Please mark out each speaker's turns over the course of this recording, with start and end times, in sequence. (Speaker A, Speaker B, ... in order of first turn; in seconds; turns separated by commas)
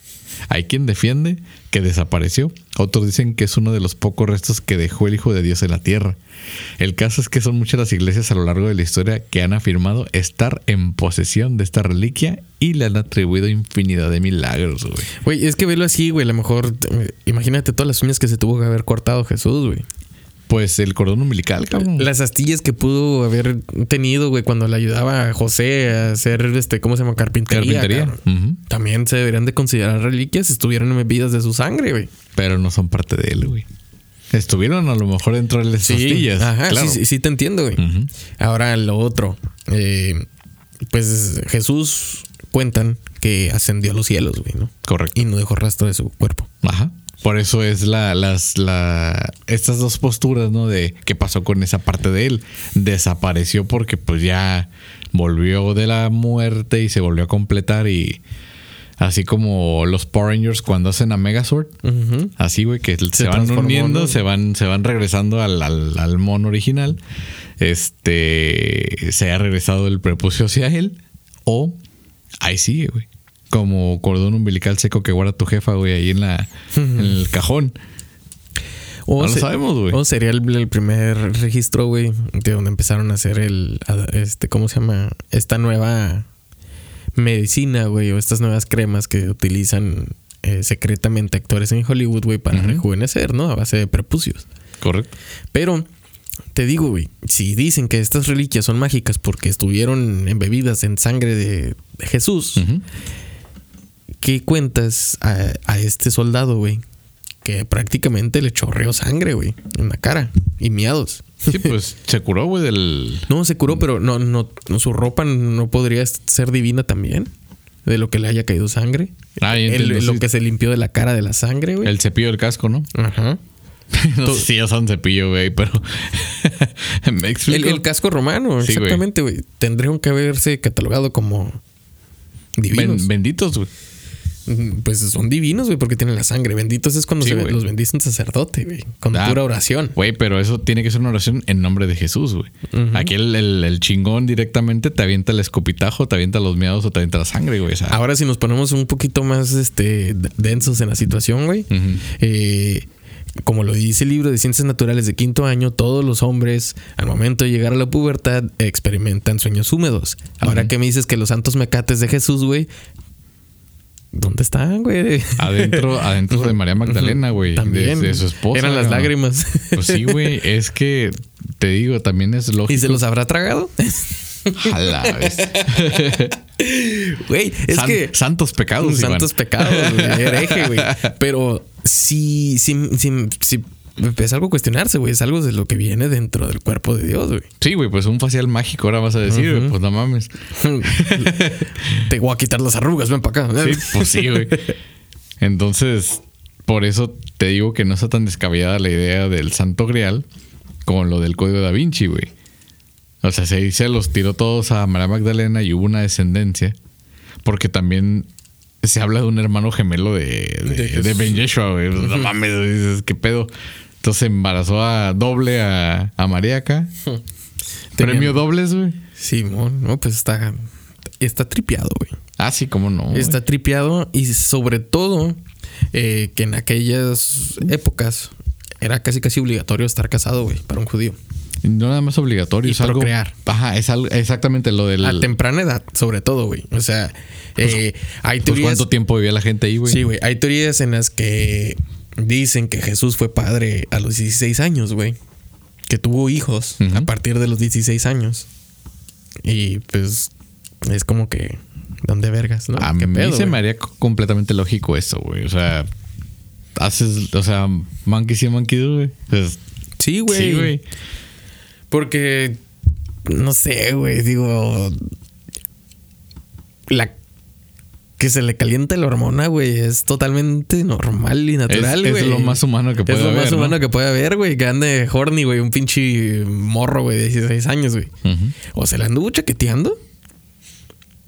Speaker A: 0.5-6.2, Speaker A: 6.8-15.1, Speaker B: 15.2-19.8, Speaker A: 20.5-22.1, Speaker B: 21.7-32.1, Speaker A: 27.5-28.6, Speaker A: 32.3-33.6, Speaker A: 34.3-37.0, Speaker B: 35.8-37.8, Speaker A: 37.8-38.1, Speaker B: 38.4-40.2, Speaker B: 40.9-46.5, Speaker A: 44.8-45.2, Speaker A: 46.6-58.2, Speaker A: 59.0-61.7, Speaker B: 61.8-62.3, Speaker A: 62.4-67.0, Speaker B: 63.1-64.2, Speaker A: 67.6-71.8, Speaker A: 72.4-77.7, Speaker B: 76.7-77.2, Speaker B: 79.1-86.3, Speaker A: 79.2-80.0, Speaker B: 87.2-94.4, Speaker A: 92.5-92.8, Speaker A: 94.8-95.1, Speaker B: 95.5-95.9, Speaker B: 96.5-102.7, Speaker A: 102.6-102.8, Speaker B: 104.2-106.8, Speaker B: 107.4-111.8, Speaker A: 111.5-113.3, Speaker B: 113.3-117.3, Speaker B: 117.8-121.9, Speaker A: 119.4-120.2, Speaker A: 121.8-122.9, Speaker B: 122.9-123.4, Speaker A: 123.9-127.8, Speaker B: 127.5-131.6, Speaker A: 128.6-129.0, Speaker B: 132.6-133.1, Speaker A: 132.7-133.7, Speaker B: 134.5-139.9, Speaker A: 137.2-137.6, Speaker A: 139.1-139.4, Speaker A: 139.9-148.0, Speaker B: 142.7-143.1, Speaker B: 147.9-152.9, Speaker A: 151.7-152.0, Speaker B: 153.4-162.7, Speaker A: 160.4-160.7, Speaker B: 164.1-170.4, Speaker A: 165.4-169.1, Speaker A: 169.7-173.0, Speaker B: 172.7-178.1, Speaker A: 174.6-176.3, Speaker A: 177.7-181.1, Speaker B: 178.8-187.5, Speaker A: 187.6-190.3, Speaker B: 189.2-189.7, Speaker B: 190.5-194.7, Speaker A: 190.8-192.0, Speaker A: 193.6-194.7, Speaker A: 195.4-200.2, Speaker A: 200.8-202.3, Speaker A: 203.2-206.8, Speaker A: 207.4-208.3, Speaker A: 208.8-216.9, Speaker B: 210.6-211.4, Speaker B: 212.0-212.3, Speaker B: 217.9-218.4, Speaker A: 218.0-219.0, Speaker B: 219.2-220.6, Speaker B: 221.2-222.2, Speaker A: 222.4-223.4, Speaker B: 223.1-225.4, Speaker B: 225.9-231.2, Speaker A: 231.6-235.3, Speaker B: 232.6-233.3, Speaker B: 235.0-238.9, Speaker A: 238.4-240.0, Speaker B: 239.8-245.2, Speaker B: 245.9-248.5, Speaker A: 246.8-247.1, Speaker B: 249.4-250.3, Speaker B: 250.8-253.6, Speaker A: 252.8-255.9, Speaker A: 256.7-259.6, Speaker B: 260.0-260.8, Speaker A: 260.3-260.8, Speaker B: 261.9-262.6, Speaker B: 263.2-265.0, Speaker B: 266.9-267.1, Speaker B: 268.2-278.1, Speaker A: 271.7-273.8, Speaker A: 278.2-278.5, Speaker B: 278.7-280.0